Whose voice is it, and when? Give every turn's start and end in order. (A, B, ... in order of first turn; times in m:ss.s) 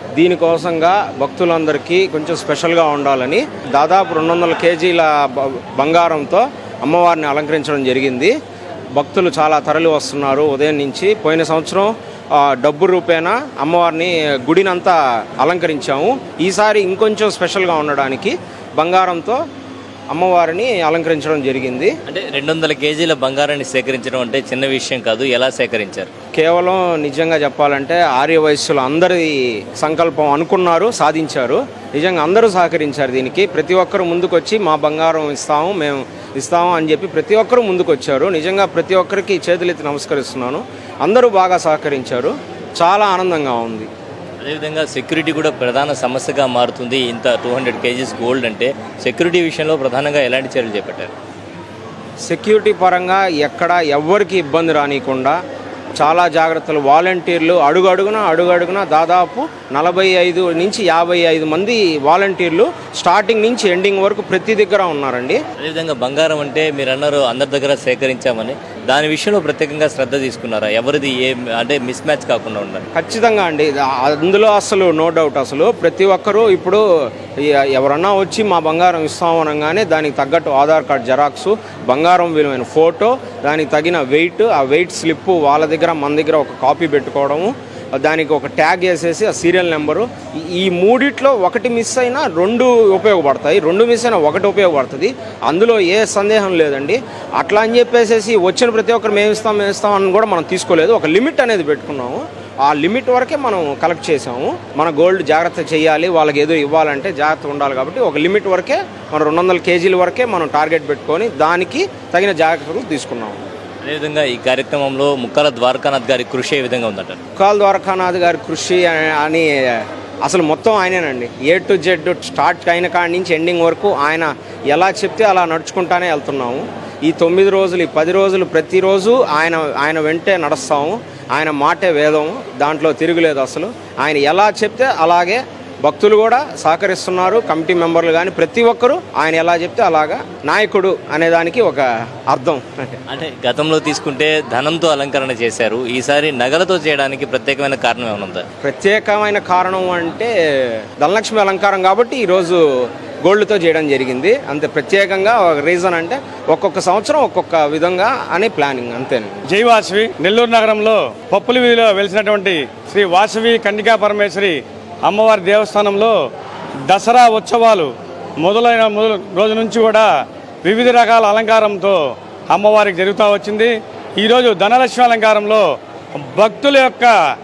0:00.2-0:08.3 A
0:09.0-0:19.4 A
0:20.1-0:21.9 A
0:22.1-0:26.1 B
0:26.3-0:43.9 A
0:44.4-0:51.1 B
0:52.3-0:55.4 A
0:56.0-1:05.4 A
1:05.6-1:12.9 B
1:12.9-1:53.4 A
1:53.8-1:57.2 B
1:57.4-2:23.0 A
2:23.1-2:28.5 B
2:28.6-2:39.4 A
2:39.5-2:46.2 C
2:46.9-2:50.1 C
2:50.6-2:57.2 C